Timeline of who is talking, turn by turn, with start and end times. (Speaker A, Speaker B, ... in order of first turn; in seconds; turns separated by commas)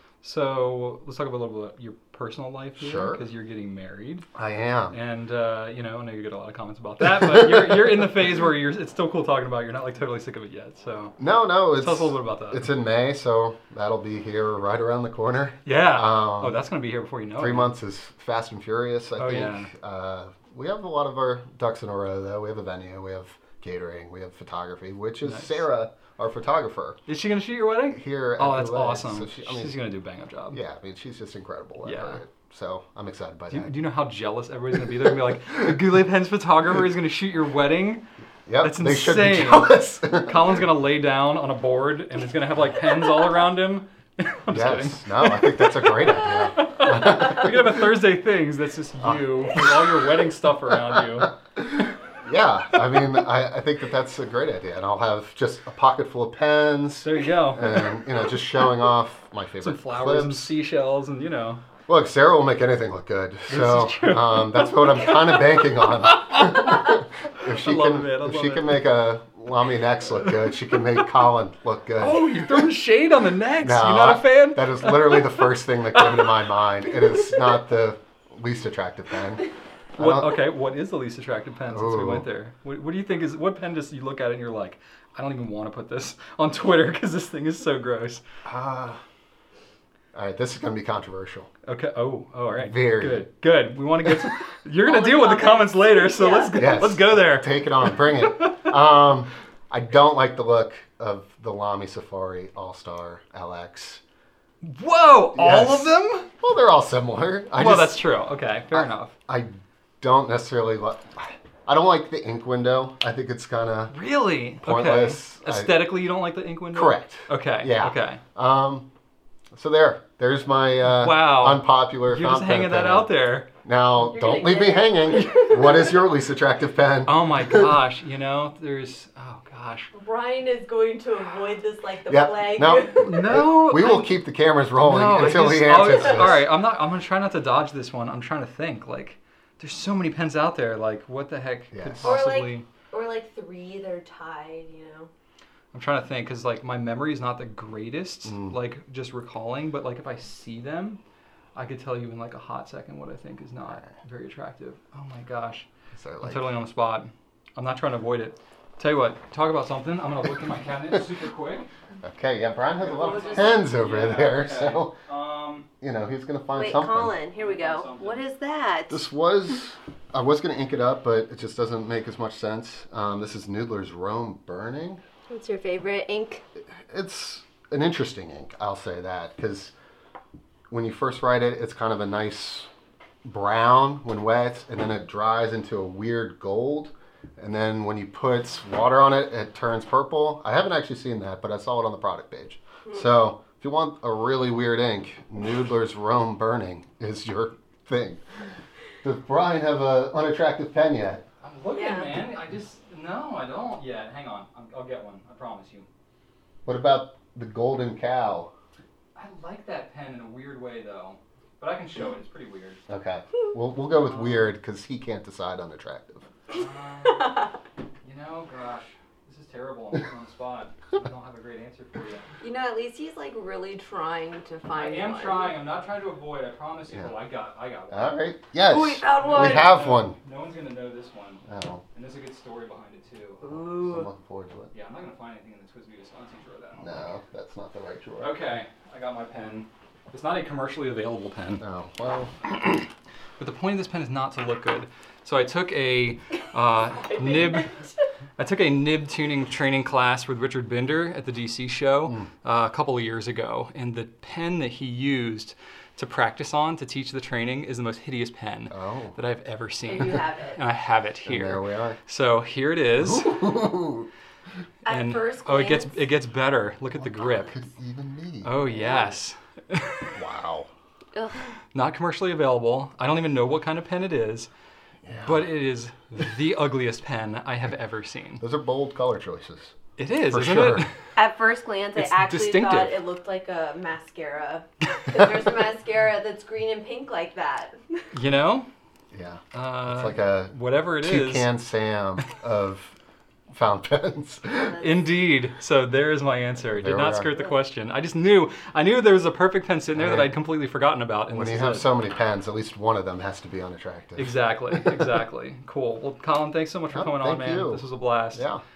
Speaker A: 0.2-4.3, Speaker B: 2.8-3.3, Speaker B: 4.3-5.0, Speaker A: 4.9-11.2, Speaker B: 11.2-16.6, Speaker A: 11.8-12.7, Speaker A: 15.7-17.7, Speaker B: 17.4-27.0, Speaker A: 19.2-19.7, Speaker A: 25.2-25.6, Speaker A: 27.1-30.6, Speaker B: 27.9-29.8, Speaker B: 30.5-33.8, Speaker A: 31.8-32.2, Speaker A: 33.5-38.0, Speaker B: 38.5-40.6, Speaker A: 38.6-51.4, Speaker B: 44.5-47.7, Speaker B: 49.0-50.2, Speaker B: 51.0-60.5, Speaker A: 57.0-58.0, Speaker A: 59.6-61.6, Speaker B: 61.9-72.7, Speaker A: 63.5-68.9, Speaker A: 72.0-76.5, Speaker B: 73.6-80.4, Speaker A: 80.0-88.2, Speaker B: 81.7-82.3, Speaker B: 88.5-89.0, Speaker B: 90.1-91.5, Speaker A: 91.7-98.7, Speaker B: 92.5-93.2, Speaker C: 94.8-96.7, Speaker B: 96.5-104.0, Speaker A: 104.6-106.3, Speaker B: 105.3-108.1, Speaker A: 107.5-109.1, Speaker B: 108.7-114.0, Speaker A: 113.9-118.2, Speaker B: 114.6-116.0, Speaker B: 116.7-118.9, Speaker B: 119.5-127.8, Speaker A: 120.8-123.5, Speaker C: 124.1-125.8, Speaker A: 127.0-129.9, Speaker C: 129.9-133.2, Speaker B: 132.1-136.5, Speaker A: 133.0-134.2, Speaker A: 134.8-142.7, Speaker B: 141.7-142.2, Speaker C: 142.0-145.1, Speaker A: 145.7-151.0, Speaker B: 148.2-148.6, Speaker A: 151.6-155.7, Speaker B: 155.9-156.6, Speaker A: 156.2-161.7, Speaker B: 162.0-165.0, Speaker A: 162.8-165.7, Speaker C: 163.0-163.7, Speaker B: 165.8-167.2, Speaker C: 166.5-169.0, Speaker A: 167.3-168.3, Speaker B: 168.9-175.0, Speaker C: 175.3-176.4, Speaker B: 176.9-179.7, Speaker B: 180.7-182.7, Speaker B: 183.2-198.2, Speaker B: 199.0-201.2, Speaker A: 201.4-205.9, Speaker C: 201.7-202.2, Speaker B: 206.7-208.5, Speaker A: 209.2-212.8, Speaker B: 212.9-216.3, Speaker A: 213.9-214.5, Speaker A: 216.5-222.3, Speaker C: 222.4-225.6, Speaker A: 224.7-228.3, Speaker B: 226.9-227.2, Speaker B: 227.9-230.2, Speaker C: 228.7-229.7, Speaker A: 229.2-233.8, Speaker B: 231.5-231.8, Speaker C: 233.4-234.1, Speaker B: 233.8-234.7, Speaker A: 234.7-237.1, Speaker B: 236.8-238.4, Speaker A: 238.2-241.7, Speaker B: 241.6-242.5, Speaker A: 243.4-263.6, Speaker C: 247.0-247.8, Speaker B: 258.7-259.2, Speaker C: 259.8-260.6, Speaker B: 261.2-262.0, Speaker B: 263.0-264.1, Speaker C: 264.9-266.1, Speaker A: 264.9-267.6, Speaker B: 267.2-269.2, Speaker A: 268.4-270.2, Speaker B: 270.1-270.7, Speaker C: 271.1-271.5, Speaker A: 271.7-274.5, Speaker B: 275.1-275.5, Speaker A: 275.2-278.4, Speaker B: 278.4-280.9, Speaker A: 280.0-280.9, Speaker C: 281.2-288.0, Speaker A: 281.9-283.0, Speaker A: 288.1-288.7, Speaker B: 289.1-293.0, Speaker A: 289.5-291.5, Speaker B: 293.5-294.8, Speaker C: 294.6-295.1, Speaker A: 294.8-301.9, Speaker B: 296.7-297.4, Speaker B: 299.9-300.4, Speaker B: 301.3-305.2, Speaker A: 304.2-308.5, Speaker B: 306.9-308.6